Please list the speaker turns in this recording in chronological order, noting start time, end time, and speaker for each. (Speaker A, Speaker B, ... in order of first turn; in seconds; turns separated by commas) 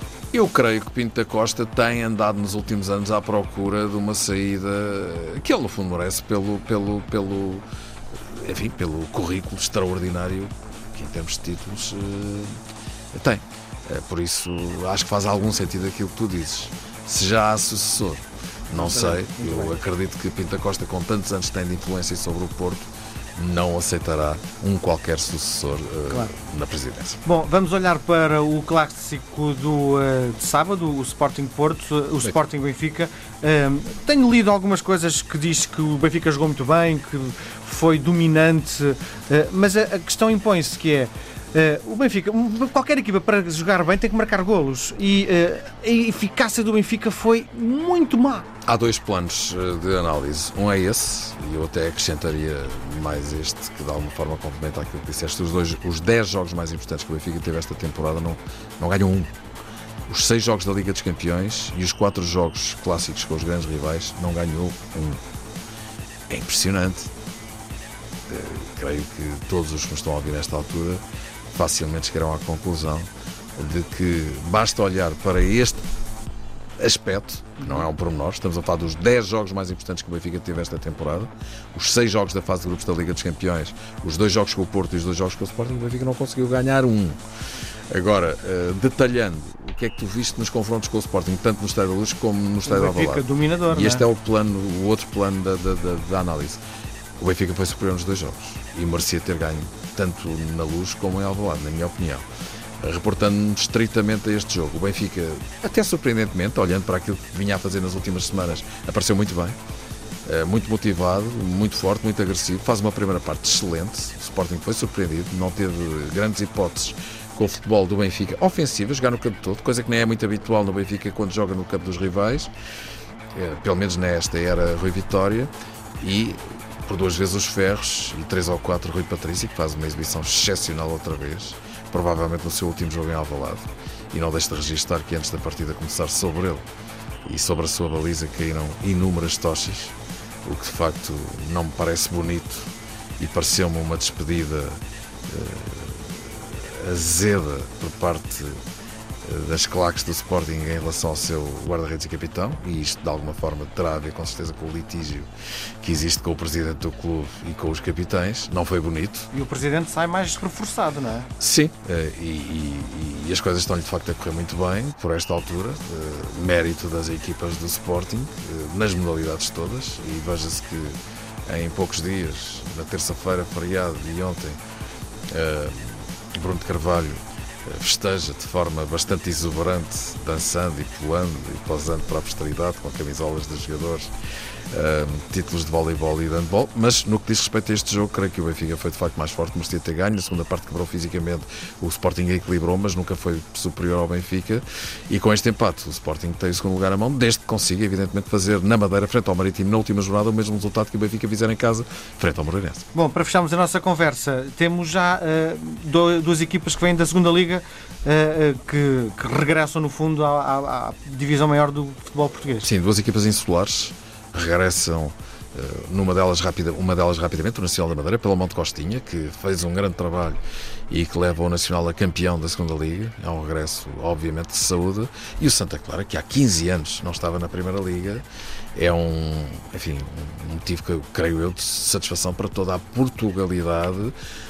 Speaker A: 0.3-7.7, Speaker A: 8.3-12.6, Speaker A: 13.1-27.2, Speaker B: 18.7-19.8, Speaker B: 27.2-48.5, Speaker A: 48.6-59.3, Speaker A: 60.1-65.2, Speaker A: 66.3-67.1, Speaker A: 68.3-75.8, Speaker A: 76.8-87.2, Speaker A: 87.9-96.6, Speaker B: 92.6-94.1, Speaker A: 97.2-102.2, Speaker A: 102.8-109.6, Speaker A: 110.2-122.5, Speaker A: 123.3-136.7, Speaker A: 137.2-148.6, Speaker A: 149.2-155.3, Speaker A: 155.8-159.3, Speaker B: 159.3-161.3, Speaker A: 161.4-174.6, Speaker A: 175.3-184.1, Speaker A: 184.7-202.8, Speaker B: 202.9-212.7, Speaker A: 212.6-220.4, Speaker A: 220.9-234.1